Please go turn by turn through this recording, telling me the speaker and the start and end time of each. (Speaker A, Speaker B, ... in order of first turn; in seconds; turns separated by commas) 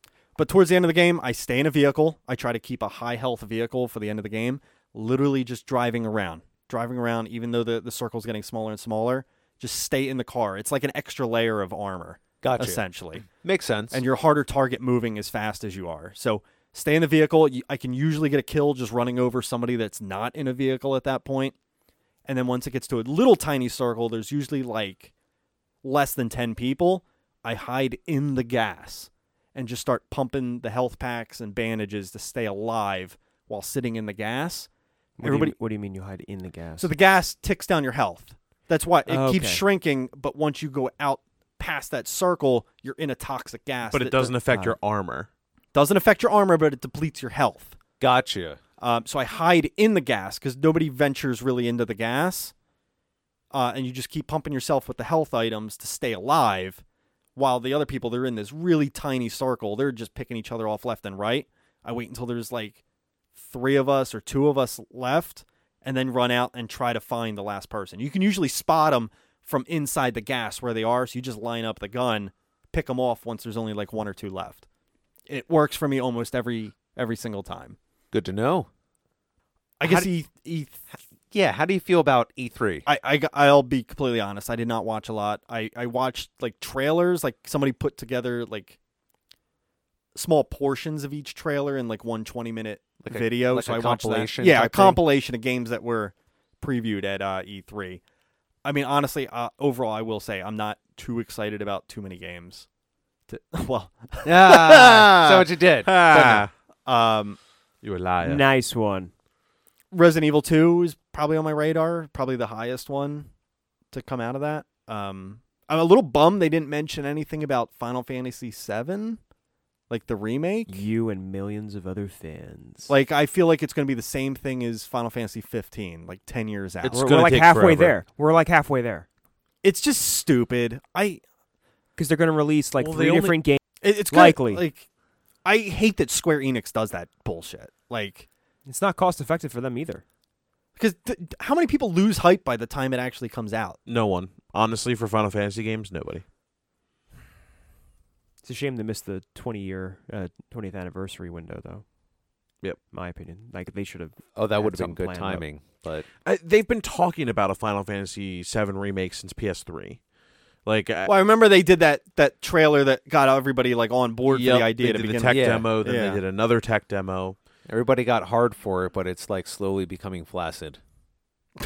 Speaker A: 0.4-13.3, Speaker B: 12.4-14.0, Speaker A: 13.9-21.6, Speaker A: 22.3-25.1, Speaker A: 25.8-34.7, Speaker C: 35.2-36.9, Speaker A: 35.2-35.5, Speaker A: 36.8-44.7, Speaker C: 39.1-39.6, Speaker D: 43.9-45.3, Speaker A: 45.7-47.8, Speaker B: 48.0-48.6, Speaker A: 48.8-52.5, Speaker A: 53.5-56.8, Speaker A: 57.4-62.8, Speaker A: 63.3-74.7, Speaker A: 75.3-77.8, Speaker B: 78.1-78.7, Speaker A: 79.8-80.9, Speaker B: 79.8-80.1, Speaker B: 81.3-82.8, Speaker A: 82.9-88.8, Speaker A: 90.2-98.0, Speaker B: 93.0-95.0, Speaker A: 98.6-102.7, Speaker A: 103.3-107.4, Speaker B: 104.3-106.0, Speaker D: 106.0-106.5, Speaker D: 107.8-108.5, Speaker C: 108.2-109.1, Speaker A: 109.9-113.3, Speaker A: 113.9-119.2, Speaker A: 119.9-120.8, Speaker C: 120.7-122.9, Speaker A: 122.9-127.2, Speaker D: 126.8-128.0, Speaker C: 126.9-129.1, Speaker A: 129.6-131.2, Speaker C: 132.0-134.7, Speaker D: 132.8-133.4, Speaker A: 133.8-134.9, Speaker A: 135.4-138.3, Speaker C: 138.7-140.0, Speaker A: 140.8-143.8, Speaker D: 143.9-146.2, Speaker C: 148.4-151.9, Speaker C: 152.9-155.5, Speaker B: 154.3-156.1, Speaker D: 156.2-160.0, Speaker D: 160.7-161.1, Speaker A: 161.1-166.2, Speaker D: 164.3-167.4, Speaker B: 165.2-165.7, Speaker B: 167.7-170.8